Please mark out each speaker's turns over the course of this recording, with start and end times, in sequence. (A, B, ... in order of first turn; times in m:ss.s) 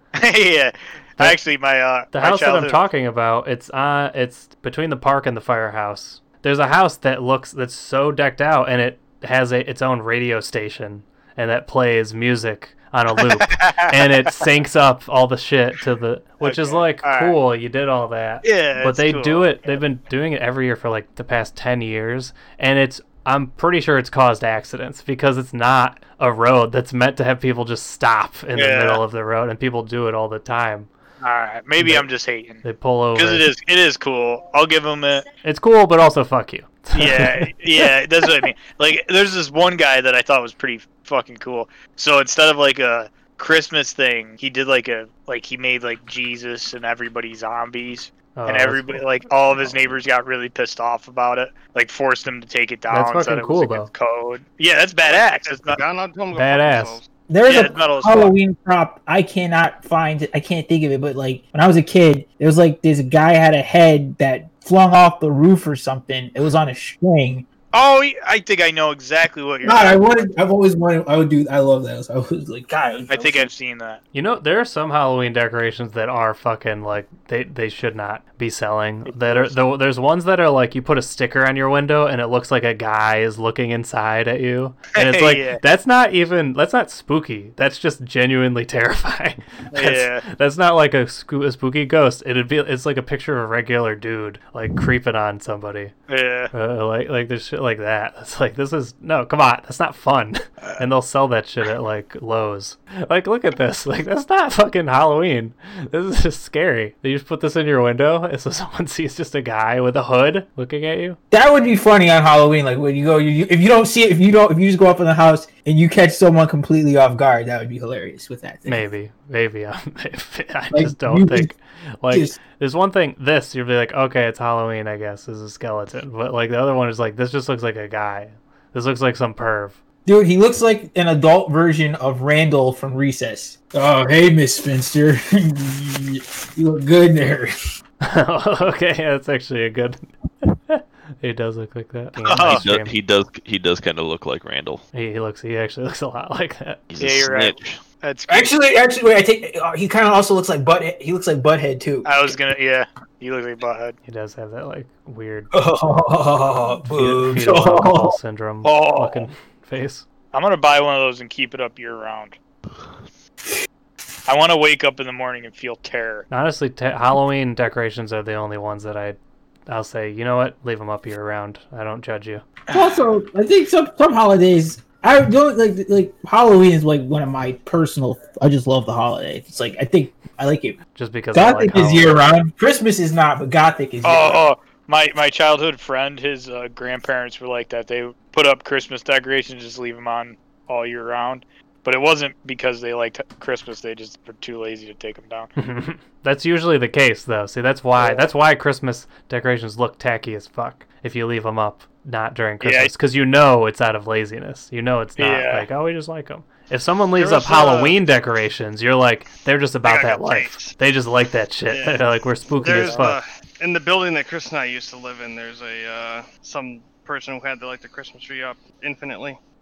0:00.2-0:02.8 A
0:02.1-0:30.9 B
0:13.2-0:14.4 A
0:16.4-0:17.4 A
0:18.4-0:19.8 A
0:28.5-0:29.0 A
0:31.2-0:35.3 A
0:31.8-0:32.1 B
0:32.6-0:33.5 B
0:35.4-0:38.0 B
0:36.9-0:55.8 A
0:48.4-0:50.0 B
0:52.9-0:53.9 B
0:55.0-0:57.1 C
0:56.3-0:57.0 B
0:57.3-1:07.5 D
0:57.5-0:58.4 A
1:07.7-1:10.0 A
1:09.6-1:13.5 D
1:13.1-1:14.0 A
1:14.1-1:35.9 B
1:19.1-1:19.6 A
1:25.0-1:25.6 A
1:29.7-1:30.2 A
1:36.1-1:36.5 A
1:36.5-1:51.2 B
1:51.3-1:58.9 D
1:58.7-2:09.8 B
2:00.7-2:01.5 D
2:02.1-2:02.4 D
2:10.0-2:17.5 D
2:18.0-2:23.0 B
2:22.2-2:22.6 A
2:22.4-2:24.8 E
2:24.9-2:26.8 B
2:26.9-2:27.8 E
2:27.0-2:28.6 A
2:28.3-2:32.4 D
2:32.0-2:34.0 A
2:34.1-2:35.5 B
2:35.5-2:38.2 D
2:37.0-2:40.0 B
2:38.6-2:39.3 A
2:40.3-2:42.4 A
2:44.3-2:46.3 A
2:46.3-2:49.2 B
2:49.7-2:52.4 B
2:52.7-3:00.8 D
3:01.0-3:02.3 B
3:01.3-3:04.4 D
3:04.0-3:15.5 A
3:15.6-3:33.2 B
3:18.0-3:18.3 A
3:22.6-3:22.9 A
3:25.2-3:25.7 A
3:27.2-3:28.0 C
3:29.8-3:30.8 C
3:31.7-3:39.4 C
3:32.6-3:33.1 A